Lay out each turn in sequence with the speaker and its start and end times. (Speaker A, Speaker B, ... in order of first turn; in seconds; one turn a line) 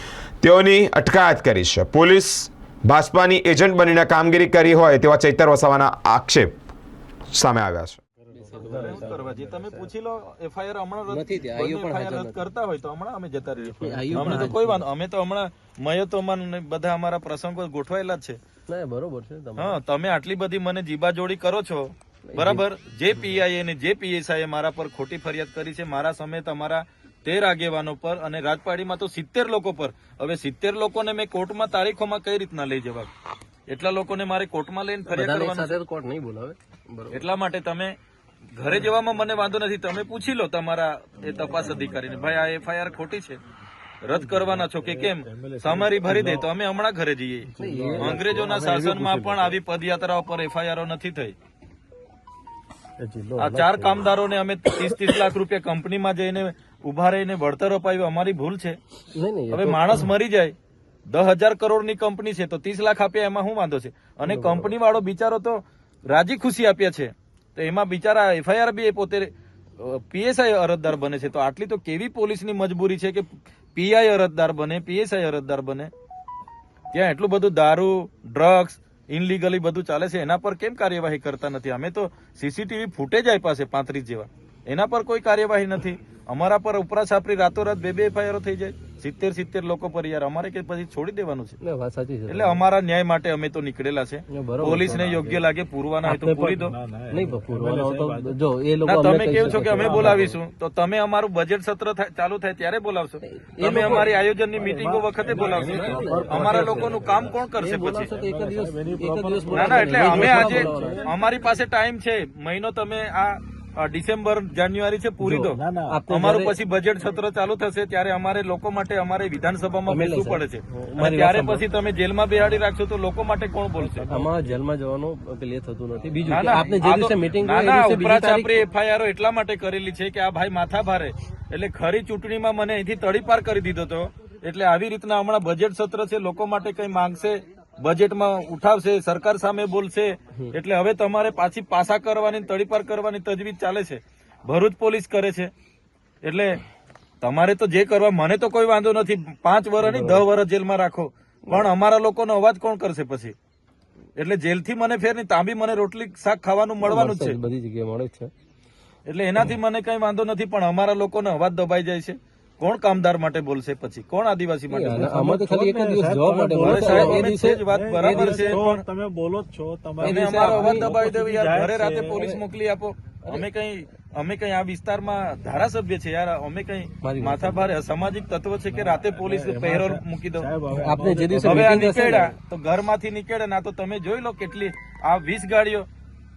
Speaker A: 0.4-6.6
Speaker A: 7.3-8.0
Speaker B: 8.2-9.9
Speaker C: 8.4-9.2
Speaker D: 8.5-18.4
Speaker C: 11.1-12.4
Speaker C: 13.6-14.8
Speaker B: 14.1-14.5
Speaker C: 18.7-19.8
Speaker D: 19.6-33.1
Speaker C: 22.3-22.6
Speaker D: 33.7-35.8
Speaker C: 35.1-37.2
Speaker D: 37.1-37.9
Speaker D: 38.6-43.4
Speaker D: 44.0-51.4
Speaker B: 44.1-46.5
Speaker B: 47.5-49.6
Speaker C: 47.6-48.6
Speaker B: 53.0-54.1
Speaker D: 53.4-58.8
Speaker C: 59.1-60.1
Speaker D: 59.5-60.5
Speaker D: 61.1-75.9
Speaker C: 64.2-64.7
Speaker D: 76.9-91.6
Speaker C: 91.6-92.6
Speaker D: 92.3-96.8
Speaker C: 94.3-95.4
Speaker B: 94.8-95.3
Speaker B: 96.1-98.4
Speaker C: 97.1-100.3
Speaker D: 98.8-108.1
Speaker B: 99.4-100.3
Speaker C: 103.2-104.1
Speaker B: 104.5-107.4
Speaker C: 105.3-111.1
Speaker B: 108.1-111.3
Speaker D: 109.5-124.1
Speaker C: 115.2-116.5
Speaker B: 115.5-116.0
Speaker C: 119.9-121.6
Speaker B: 123.8-124.4
Speaker C: 124.1-128.7
Speaker D: 126.3-145.5
Speaker D: 146.2-146.6
Speaker D: 147.2-153.3
Speaker C: 149.8-150.2
Speaker D: 154.2-157.4
Speaker C: 156.8-158.3
Speaker D: 159.1-165.2
Speaker C: 164.7-168.6
Speaker B: 164.9-172.2
Speaker D: 166.6-168.8
Speaker C: 170.0-170.9
Speaker D: 170.0-180.5
Speaker C: 172.2-172.4
Speaker C: 177.0-177.7
Speaker B: 178.7-181.7
Speaker C: 180.7-182.3
Speaker D: 181.4-185.9